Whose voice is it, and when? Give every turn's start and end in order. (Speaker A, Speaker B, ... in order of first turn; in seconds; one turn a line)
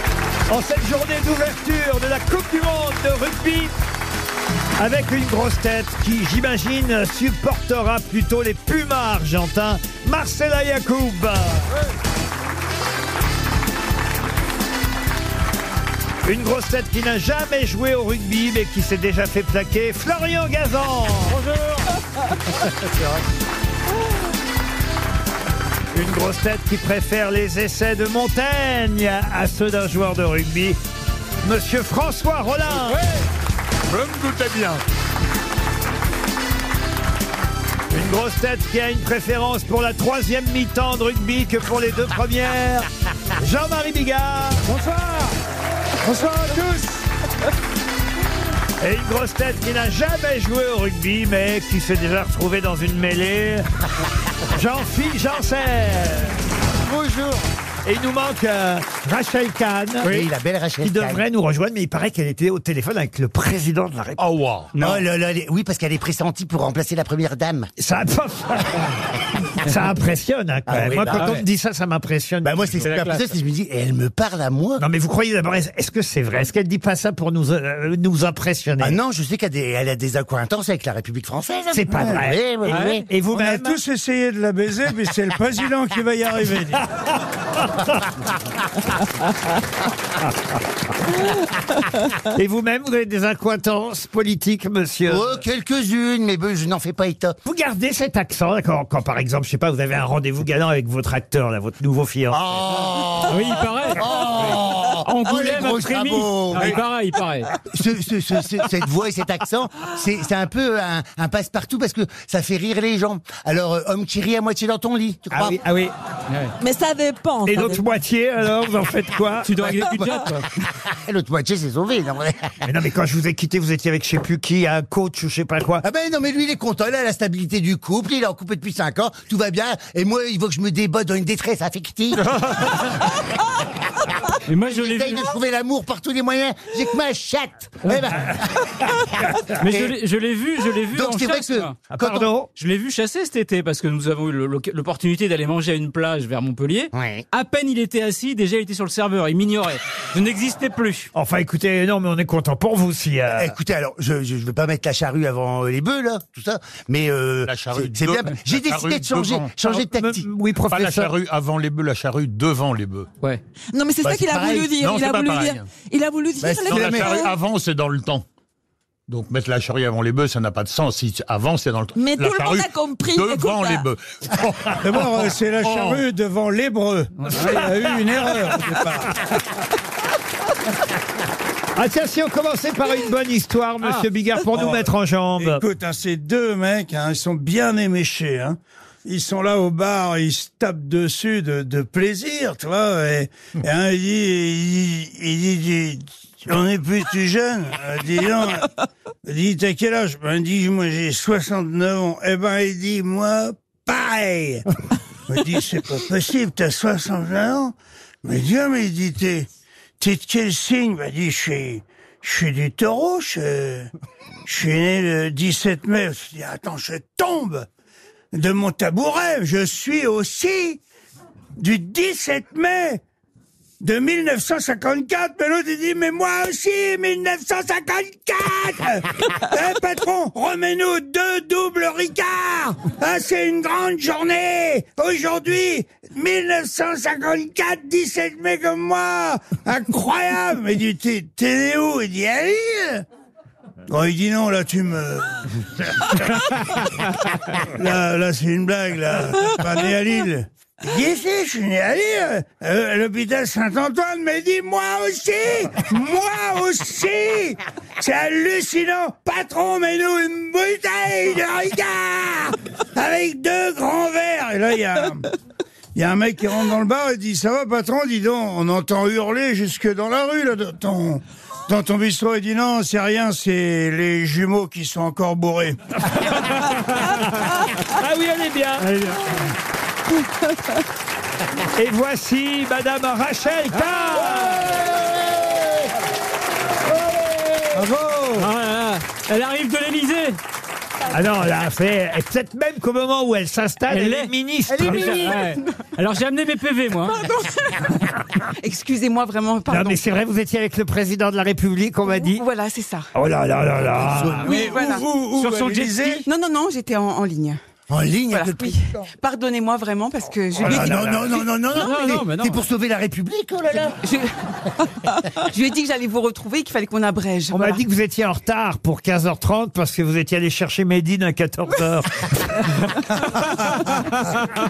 Speaker A: 0.5-3.7
Speaker A: 4.8-11.7
Speaker A: 16.2-21.4
Speaker A: 25.9-30.8
Speaker A: 31.4-33.0
Speaker B: 33.9-34.8
Speaker A: 37.9-44.6
Speaker C: 44.8-45.2
Speaker C: 46.0-47.0
Speaker A: 48.8-53.7
Speaker A: 54.5-56.4
Speaker D: 56.9-57.4
Speaker A: 57.9-60.3
Speaker D: 60.0-61.2
Speaker A: 60.8-64.2
Speaker B: 64.2-64.7
Speaker E: 64.7-65.0
Speaker D: 64.8-67.7
Speaker A: 67.8-68.9
Speaker A: 69.6-73.1
Speaker D: 70.7-71.4
Speaker E: 71.0-71.5
Speaker D: 72.4-74.8
Speaker E: 72.8-73.2
Speaker A: 74.8-79.0
Speaker D: 78.8-83.1
Speaker A: 81.7-83.8
Speaker E: 82.7-83.0
Speaker C: 83.3-86.8
Speaker A: 86.8-88.0
Speaker A: 92.3-95.4
Speaker D: 95.1-97.4
Speaker A: 97.5-102.4
Speaker D: 102.3-106.8
Speaker E: 103.2-104.5
Speaker E: 105.0-107.5
Speaker D: 107.7-115.6
Speaker A: 115.3-115.9
Speaker E: 116.3-116.5
Speaker F: 116.6-117.8
Speaker A: 117.5-119.7
Speaker E: 119.4-120.5
Speaker D: 120.1-122.5
Speaker A: 122.6-125.8
Speaker D: 125.8-132.9
Speaker E: 134.5-135.3
Speaker D: 134.6-140.0
Speaker E: 137.8-138.2
Speaker E: 139.5-141.8
Speaker D: 140.9-142.3
Speaker A: 141.9-142.5
Speaker E: 142.5-151.1
Speaker D: 146.9-147.2
Speaker A: 151.1-153.5
Speaker D: 153.4-160.3
Speaker B: 157.5-159.5
Speaker A: 159.6-161.1
Speaker B: 160.7-163.1
Speaker F: 163.7-167.4
Speaker D: 164.0-164.7
Speaker B: 164.8-165.7
Speaker D: 166.4-167.2
Speaker B: 166.7-168.2
Speaker B: 169.1-176.0
Speaker F: 171.9-173.9
Speaker C: 174.8-179.2
Speaker E: 177.2-177.5
Speaker A: 177.4-177.7
Speaker A: 181.8-185.6
Speaker C: 184.5-198.7
Speaker C: 199.2-204.7
Speaker C: 205.3-209.5
Speaker C: 210.0-213.9
Speaker C: 214.5-217.7
Speaker C: 218.3-220.8
Speaker C: 221.6-223.0
Speaker C: 223.8-243.0
Speaker C: 243.9-246.5
Speaker C: 247.6-265.3
Speaker C: 265.9-275.8
Speaker A: 277.4-278.9
Speaker E: 278.8-279.5
Speaker A: 281.6-284.7
Speaker E: 283.8-284.7
Speaker C: 287.7-288.5
Speaker E: 288.4-290.4
Speaker A: 291.1-295.4
Speaker E: 293.9-297.2
Speaker D: 294.8-295.4
Speaker G: 294.9-295.6
Speaker G: 297.0-298.1
Speaker G: 298.6-300.0
Speaker A: 299.7-302.4
Speaker G: 302.1-303.1
Speaker A: 303.1-304.7
Speaker D: 303.8-304.7
Speaker C: 304.4-306.3
Speaker G: 304.5-305.1
Speaker E: 305.4-306.2
Speaker G: 306.3-307.6
Speaker D: 307.9-309.1
Speaker G: 308.3-311.1
Speaker A: 310.6-311.4
Speaker D: 310.6-314.0
Speaker E: 311.7-312.6
Speaker G: 314.0-314.3
Speaker G: 315.4-317.8
Speaker A: 317.5-324.3